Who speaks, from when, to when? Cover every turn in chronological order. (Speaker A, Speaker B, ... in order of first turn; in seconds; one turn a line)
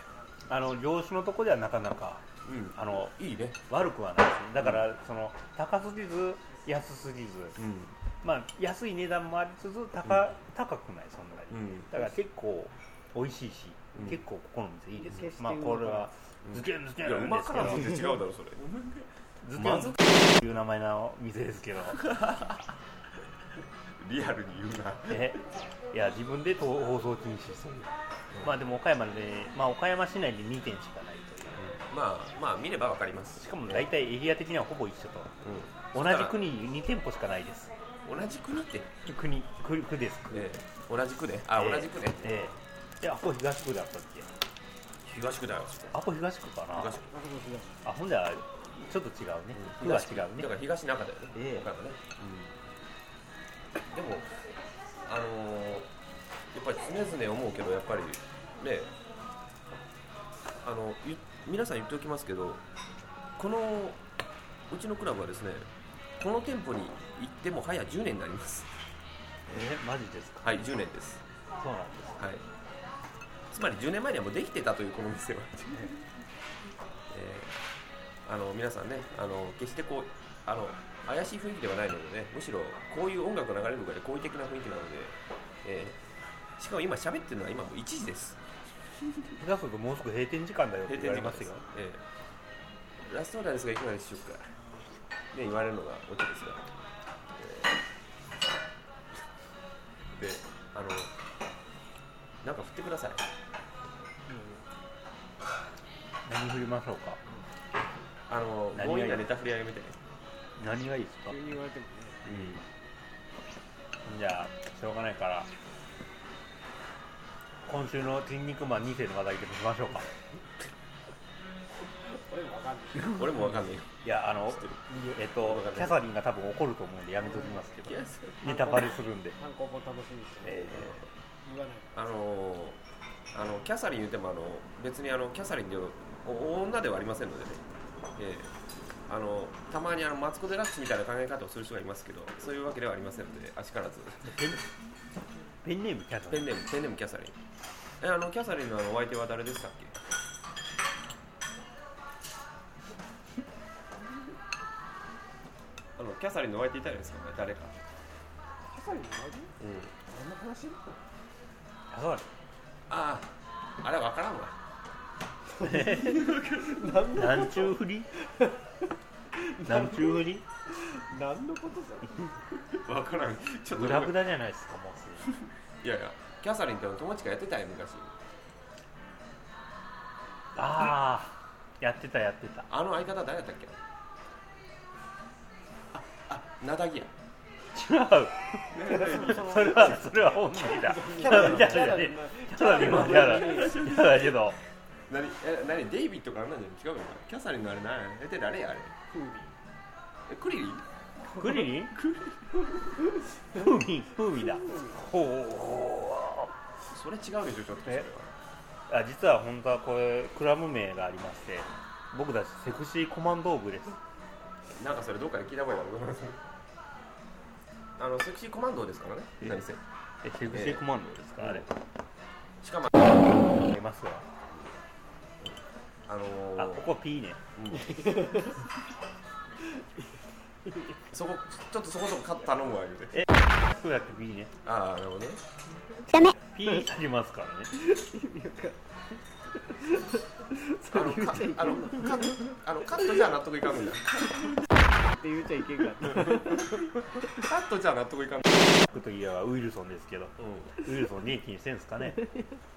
Speaker A: 0.5-2.2
Speaker B: 2.4-3.7
Speaker A: 2.7-3.1
Speaker A: 3.7-7.6
Speaker B: 7.6-7.9
Speaker A: 8.2-18.0
Speaker B: 11.5-11.9
Speaker C: 15.0-16.1
Speaker B: 16.4-20.1
Speaker A: 19.4-22.0
Speaker B: 21.9-22.6
Speaker B: 24.0-25.4
Speaker A: 25.1-27.9
Speaker A: 28.4-31.7
Speaker B: 31.6-33.9
Speaker A: 33.4-35.3
Speaker B: 35.4-36.4
Speaker A: 35.9-37.7
Speaker B: 38.0-38.9
Speaker A: 39.0-40.5
Speaker B: 40.3-42.5
Speaker A: 41.6-44.3
Speaker B: 45.0-46.0
Speaker A: 45.9-47.0
Speaker B: 46.7-47.1
Speaker C: 47.1-47.8
Speaker A: 47.8-50.5
Speaker B: 49.5-52.6
Speaker A: 51.3-51.7
Speaker B: 53.9-54.4
Speaker B: 55.0-55.9
Speaker B: 56.5-58.9
Speaker B: 60.6-62.6
Speaker B: 63.4-64.0
Speaker B: 64.7-65.7
Speaker B: 66.2-68.7
Speaker A: 69.5-70.4
Speaker B: 70.4-71.2
Speaker A: 71.6-72.2
Speaker B: 72.2-72.4
Speaker B: 73.5-76.0
Speaker B: 77.1-77.6
Speaker B: 78.2-86.0
Speaker B: 86.6-88.4
Speaker A: 89.4-91.6
Speaker B: 90.9-92.0
Speaker B: 93.0-94.5
Speaker B: 95.3-96.7
Speaker B: 97.3-97.8
Speaker B: 100.1-101.1
Speaker B: 102.4-103.2
Speaker C: 104.3-104.6
Speaker A: 106.2-107.2
Speaker B: 108.3-110.0
Speaker A: 108.7-109.3
Speaker A: 110.6-111.4
Speaker C: 111.3-112.3
Speaker A: 112.3-112.6
Speaker A: 114.0-115.5
Speaker A: 117.6-120.1
Speaker C: 122.0-123.4
Speaker B: 123.1-123.9
Speaker A: 123.2-123.4
Speaker A: 124.0-129.4
Speaker B: 124.5-126.0
Speaker C: 127.2-127.6
Speaker B: 127.8-128.4
Speaker C: 128.4-132.2
Speaker A: 130.4-131.0
Speaker B: 131.9-132.8
Speaker B: 133.3-137.6
Speaker B: 138.2-138.5
Speaker B: 139.1-144.6
Speaker A: 144.2-144.6
Speaker A: 145.6-146.5
Speaker B: 146.3-147.3
Speaker B: 148.0-149.9
Speaker B: 156.0-157.8
Speaker C: 158.7-159.5
Speaker B: 159.6-159.9
Speaker C: 160.1-160.8
Speaker A: 161.9-162.3
Speaker B: 162.9-163.3
Speaker B: 163.8-164.6
Speaker C: 165.5-168.6
Speaker A: 165.6-166.3
Speaker B: 166.1-166.9
Speaker A: 167.1-168.1
Speaker C: 169.4-172.3
Speaker A: 169.6-170.4
Speaker B: 172.7-174.2
Speaker A: 173.7-175.3
Speaker B: 175.3-178.1
Speaker A: 180.6-182.7
Speaker B: 182.7-183.8
Speaker B: 185.9-187.1
Speaker A: 187.7-194.6
Speaker B: 188.7-190.0
Speaker C: 188.9-193.9
Speaker B: 192.5-194.5
Speaker B: 195.1-198.9
Speaker C: 199.1-199.5
Speaker B: 200.3-200.8
Speaker A: 201.3-201.9
Speaker B: 201.9-202.5
Speaker A: 203.5-206.5
Speaker C: 204.6-205.0
Speaker B: 206.9-208.3
Speaker A: 208.9-214.0
Speaker B: 214.8-216.4
Speaker B: 218.0-219.8
Speaker A: 220.2-221.7
Speaker B: 220.5-220.8
Speaker B: 221.4-221.7
Speaker B: 222.6-222.9
Speaker A: 223.6-224.2
Speaker B: 225.4-226.9
Speaker A: 226.6-227.4
Speaker B: 227.6-228.1
Speaker C: 227.8-228.6
Speaker B: 231.1-233.2
Speaker A: 233.1-234.5
Speaker B: 234.6-235.4
Speaker A: 236.5-237.7
Speaker C: 237.8-238.8
Speaker C: 239.7-242.5
Speaker B: 240.9-244.4
Speaker C: 245.1-246.8
Speaker B: 246.2-248.5
Speaker A: 248.9-252.3
Speaker B: 250.4-250.7